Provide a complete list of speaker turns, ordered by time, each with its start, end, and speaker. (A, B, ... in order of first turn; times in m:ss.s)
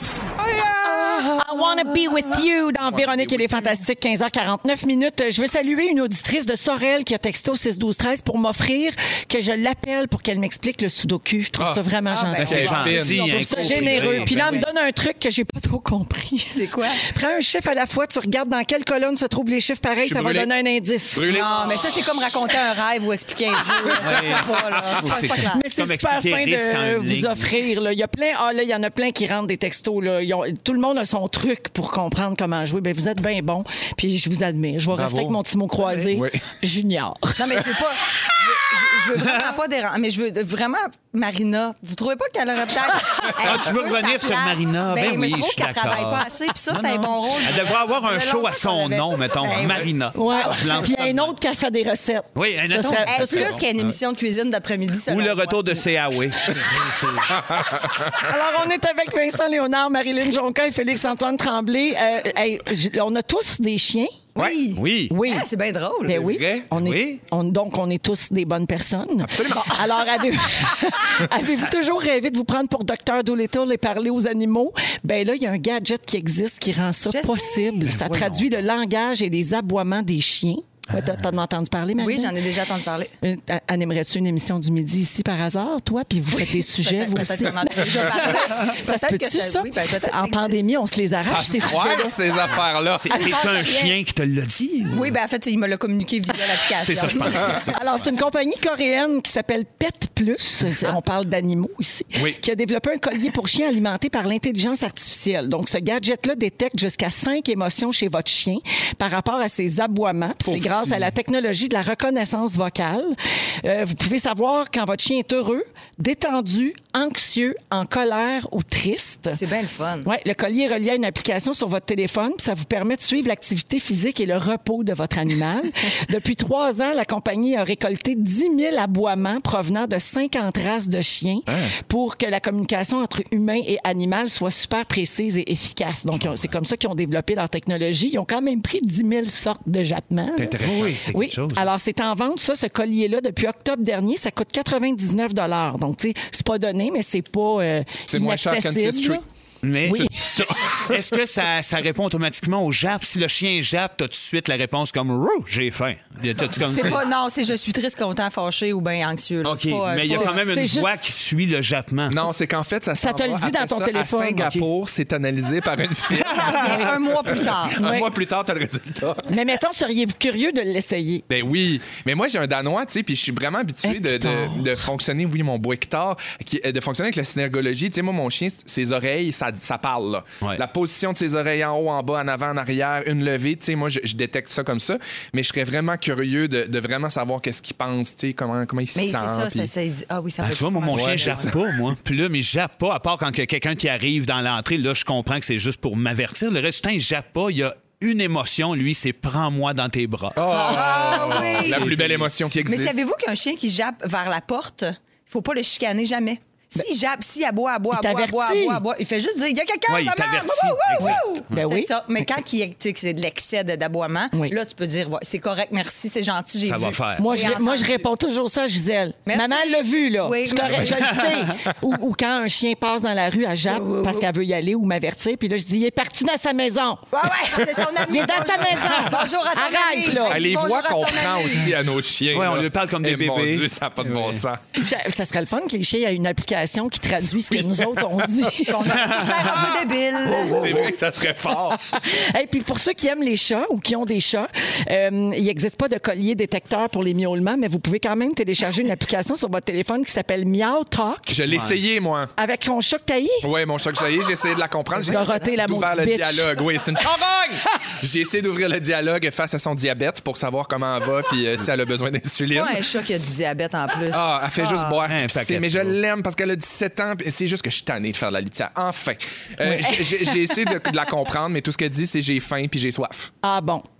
0:00.4-0:01.6 A
0:01.3-0:21.3 B
0:02.9-0:03.6 A
0:11.6-0:11.8 A
0:12.1-0:14.7 C
0:12.4-0:14.6 D
0:12.4-0:14.2 A
0:16.5-0:17.0 C
0:20.0-0:20.5 A
0:21.1-0:22.3 A
0:21.3-0:25.6 C
0:24.0-0:27.5 D
0:24.1-0:25.1 A
0:25.5-0:37.4 B
0:34.9-0:35.4 A
0:36.1-0:36.4 A
0:37.4-0:50.8 C
0:43.4-0:51.3 D
0:50.1-0:53.6 B
0:52.4-0:53.6 D
0:53.0-0:55.8 C
0:55.1-0:57.3 D
0:57.4-0:58.1 A
0:58.1-1:04.2 B
1:04.4-1:06.2 C
1:04.8-1:05.1 D
1:05.1-1:05.4 B
1:06.0-1:22.4 B
1:06.1-1:06.7 A
1:06.7-1:07.2 D
1:09.2-1:09.8 A
1:17.1-1:17.8 C
1:17.9-1:18.4 D
1:22.0-1:23.1 C
1:23.2-1:32.2 B
1:26.4-1:30.6 C
1:31.2-1:33.1 A
1:32.9-1:35.1 D
1:33.1-1:33.9 C
1:33.1-1:33.6 B
1:34.9-1:37.7 C
1:36.8-1:37.9 D
1:37.7-1:59.4 B
1:50.4-1:51.1 A
1:59.3-2:00.1 C
2:00.0-2:20.6 B
2:11.5-2:11.7 A
2:20.4-2:21.0 A
2:20.6-2:21.7 D
2:21.1-2:29.2 B
2:28.1-2:29.2 A
2:29.6-2:37.0 D
2:29.8-2:30.1 B
2:29.8-2:31.0 A
2:36.6-2:40.3 C
2:39.4-2:42.2 D
2:40.1-2:41.0 B
2:42.1-2:49.3 A
2:43.0-2:44.6 B
2:46.2-2:47.8 C
2:47.8-2:48.1 B
2:49.3-2:51.2 B
2:51.3-3:09.7 A
2:53.8-2:54.6 B
3:08.9-3:11.6 C
3:10.4-3:20.4 D
3:10.9-3:11.6 A
3:20.3-3:23.0 A
3:20.6-3:21.9 C
3:21.1-3:22.3 D
3:22.6-3:38.0 C
3:27.9-3:28.8 B
3:29.9-3:31.5 D
3:31.0-3:31.9 B
3:36.6-3:37.5 D
3:37.2-3:47.1 B
3:39.3-3:41.3 C
3:43.7-3:44.2 C
3:47.1-3:51.7 C
3:48.1-3:50.4 B
3:50.2-3:54.6 A
3:52.3-3:54.4 D
3:54.8-3:59.0 B
3:57.5-3:58.4 A
3:58.6-4:00.9 C
4:00.2-4:01.8 A
4:01.8-4:11.4 B
4:11.3-4:12.3 A
4:11.5-4:11.8 D
4:12.4-4:13.5 B
4:13.4-4:22.8 A
4:15.0-4:16.5 B
4:22.5-4:25.0 C
4:24.1-4:33.3 A
4:25.1-4:26.0 D
4:33.4-4:33.8 B